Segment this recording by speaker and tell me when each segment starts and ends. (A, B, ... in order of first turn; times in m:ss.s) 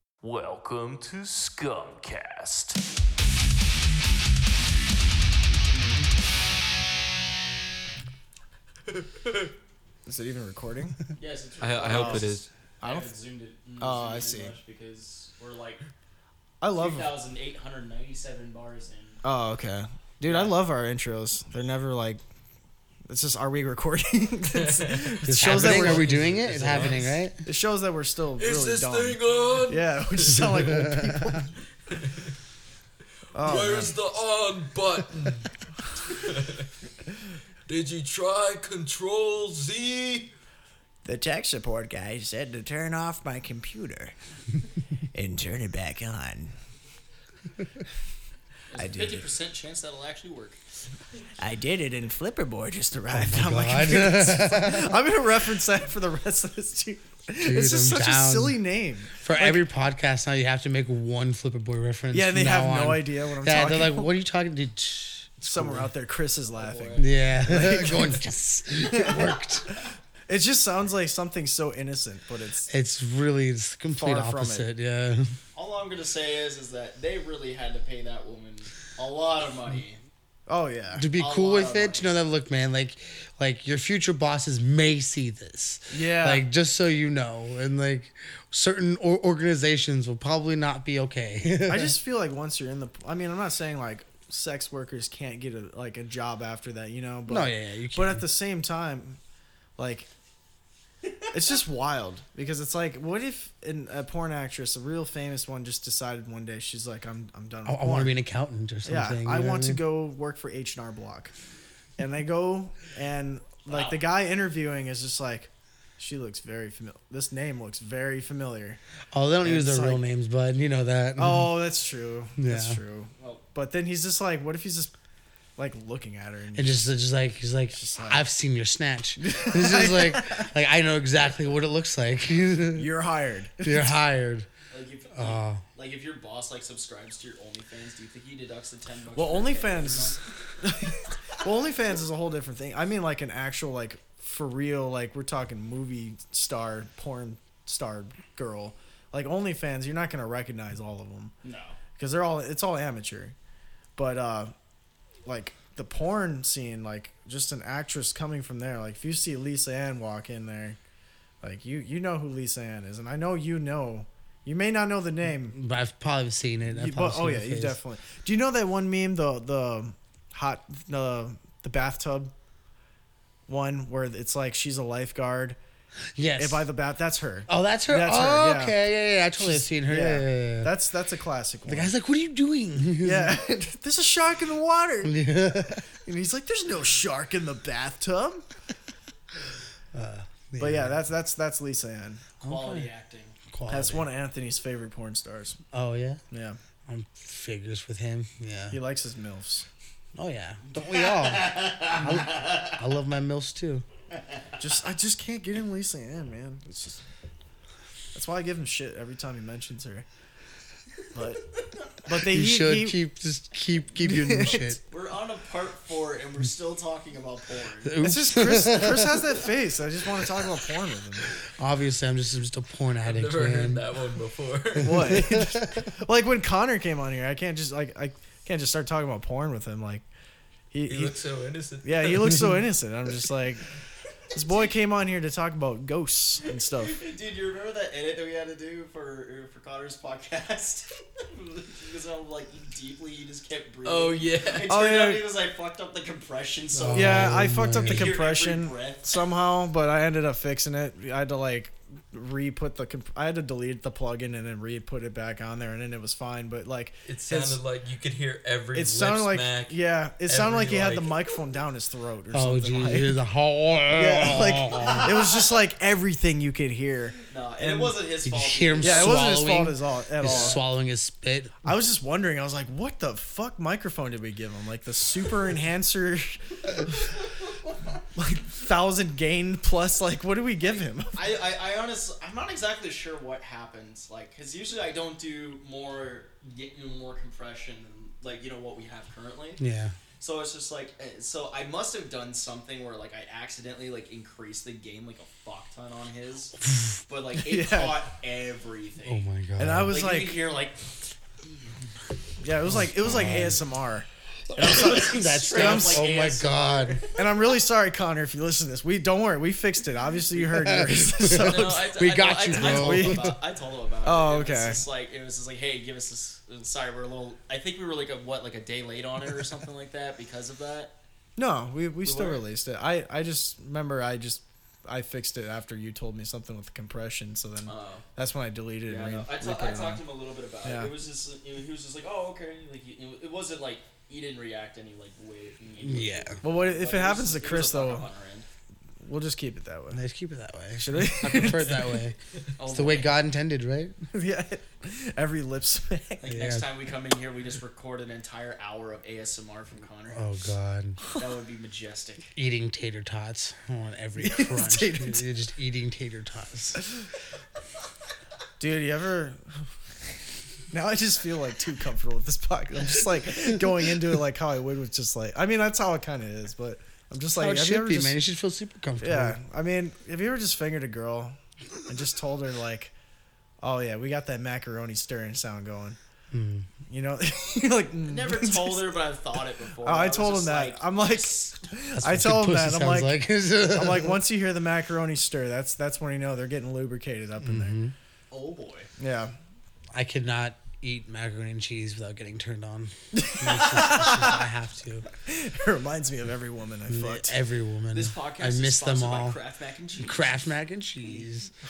0:00.2-0:02.8 A
0:10.0-0:11.0 B
0:11.2-0:15.8 C
0:11.6-0:12.5 D
0:11.9-0:13.1 B
0:13.8-0:14.5 B
0:16.6-0:17.1 B
0:16.7-0:19.2 C
0:19.2-0:22.2 B
0:20.2-0:20.6 C
0:23.1-0:31.5 B
0:24.5-0:27.2 D
0:25.3-0:27.4 E
0:28.4-0:30.6 D
0:30.6-0:31.5 E
0:31.9-0:32.4 D
0:33.3-0:33.9 B
0:33.4-0:36.7 D
0:37.7-0:40.3 D
0:41.0-0:44.2 B
0:45.1-0:46.5 B
0:48.7-0:50.6 C
0:48.8-0:49.2 B
0:51.4-0:59.7 B
0:53.1-0:54.9 E
0:57.4-0:58.6 E
0:59.2-1:05.9 E
1:02.1-1:04.1 B
1:05.4-1:08.2 B
1:06.5-1:07.1 C
1:07.0-1:09.8 E
1:08.7-1:12.7 B
1:12.7-1:15.3 E
1:14.0-1:14.7 B
1:15.5-1:20.0 C
1:20.5-1:21.1 B
1:21.0-1:31.9 E
1:21.2-1:22.1 C
1:25.9-1:26.5 B
1:31.7-1:39.2 B
1:37.3-1:38.2 E
1:39.8-1:40.1 B
1:41.3-1:48.1 B
1:47.6-1:49.8 E
1:48.8-1:51.3 B
1:52.0-1:58.8 B
1:53.7-1:54.0 C
1:59.1-2:01.5 E
1:59.4-2:00.0 B
2:01.2-2:04.9 B
2:02.4-2:02.8 E
2:03.2-2:03.4 C
2:05.6-2:06.8 B
2:06.5-2:12.9 E
2:07.7-2:08.2 B
2:09.2-2:10.5 B
2:12.7-2:13.9 B
2:13.6-2:14.5 E
2:14.7-2:20.2 C
2:15.1-2:15.6 E
2:19.1-2:31.3 B
2:31.4-2:31.8 C
2:32.0-2:33.3 B
2:34.0-2:34.5 B
2:35.2-2:40.8 B
2:41.4-2:45.6 B
2:45.5-2:47.8 E
2:46.7-2:52.3 B
2:53.5-2:55.6 B
2:56.2-2:56.6 E
2:56.4-2:58.8 B
2:57.5-3:00.7 E
2:59.4-3:01.9 B
3:01.6-3:03.4 E
3:03.0-3:05.2 B
3:05.0-3:05.9 E
3:05.7-3:08.4 B
3:09.9-3:11.0 E
3:10.6-3:12.2 B
3:12.4-3:12.9 E
3:12.4-3:13.4 C
3:13.5-3:14.1 E
3:13.7-3:15.6 B
3:15.7-3:16.2 E
3:16.3-3:16.6 B
3:16.8-3:18.8 E
3:18.7-3:19.7 B
3:20.2-3:23.8 E
3:20.7-3:22.7 C
3:24.6-3:27.0 B
3:28.1-3:30.0 B
3:31.1-3:31.4 B
3:32.0-3:33.0 B
3:32.1-3:34.8 E
3:34.0-3:34.7 B
3:34.5-3:38.0 C
3:37.8-3:39.4 E
3:38.0-3:41.3 B
3:41.5-3:43.8 E
3:43.0-3:45.3 D
3:44.8-3:50.1 B
3:44.8-3:45.8 E
3:50.7-3:51.2 B
3:50.8-3:52.4 D
3:51.8-3:53.6 B
3:54.3-3:57.0 B
3:56.7-4:09.2 C
4:03.8-4:04.7 D
4:04.7-4:05.3 B
4:06.7-4:08.1 E
4:06.9-4:17.6 B
4:17.0-4:21.2 D
4:18.7-4:23.2 B
4:22.3-4:25.1 E
4:23.9-4:28.0 B
4:24.9-4:25.2 C
4:27.3-4:29.4 C
4:28.2-4:31.6 E
4:28.8-4:30.6 B
4:30.2-4:30.6 C
4:31.6-4:37.2 B
4:37.5-4:37.9 C
4:38.1-4:41.2 B
4:41.1-4:49.6 C
4:49.6-4:50.0 E
4:50.2-4:59.2 C
4:57.4-4:58.0 B
4:59.0-5:00.0 E
4:59.6-5:00.4 B
4:59.9-5:01.7 C
5:02.4-5:04.1 B
5:02.7-5:03.6 E
5:04.5-5:07.0 E
5:04.5-5:07.2 C
5:04.6-5:06.1 B
5:07.1-5:11.9 B
5:10.4-5:13.3 E
5:11.2-5:20.9 C
5:12.5-5:13.4 B
5:14.0-5:14.8 B
5:21.4-5:30.0 B
5:22.0-5:22.4 C
5:27.6-5:28.0 C
5:28.8-5:38.4 C
5:30.6-5:30.9 B
5:35.8-5:36.4 E
5:36.4-5:38.1 B
5:39.0-5:40.0 B
5:39.9-5:44.0 E
5:40.8-5:42.0 B
5:41.2-5:41.7 C
5:42.6-5:43.2 C
5:44.1-5:46.3 B
5:46.2-5:50.5 C
5:46.3-5:46.7 E
5:50.1-5:51.0 E
5:51.1-5:52.3 C
5:52.4-5:56.9 E
5:54.2-5:55.2 B
5:58.6-5:59.7 B
6:00.7-6:08.2 B
6:07.4-6:09.4 E
6:09.0-6:12.9 B
6:13.6-6:16.0 B
6:16.3-6:16.7 E
6:16.9-6:18.8 B
6:18.0-6:21.6 C
6:19.8-6:27.7 B
6:22.0-6:24.2 E
6:27.4-6:27.9 E
6:28.3-6:28.9 C
6:29.0-6:29.3 B
6:29.9-6:35.1 E
6:33.1-6:34.4 B
6:35.2-6:37.3 B
6:36.9-6:39.4 E
6:37.9-6:40.3 C
6:40.0-6:41.5 E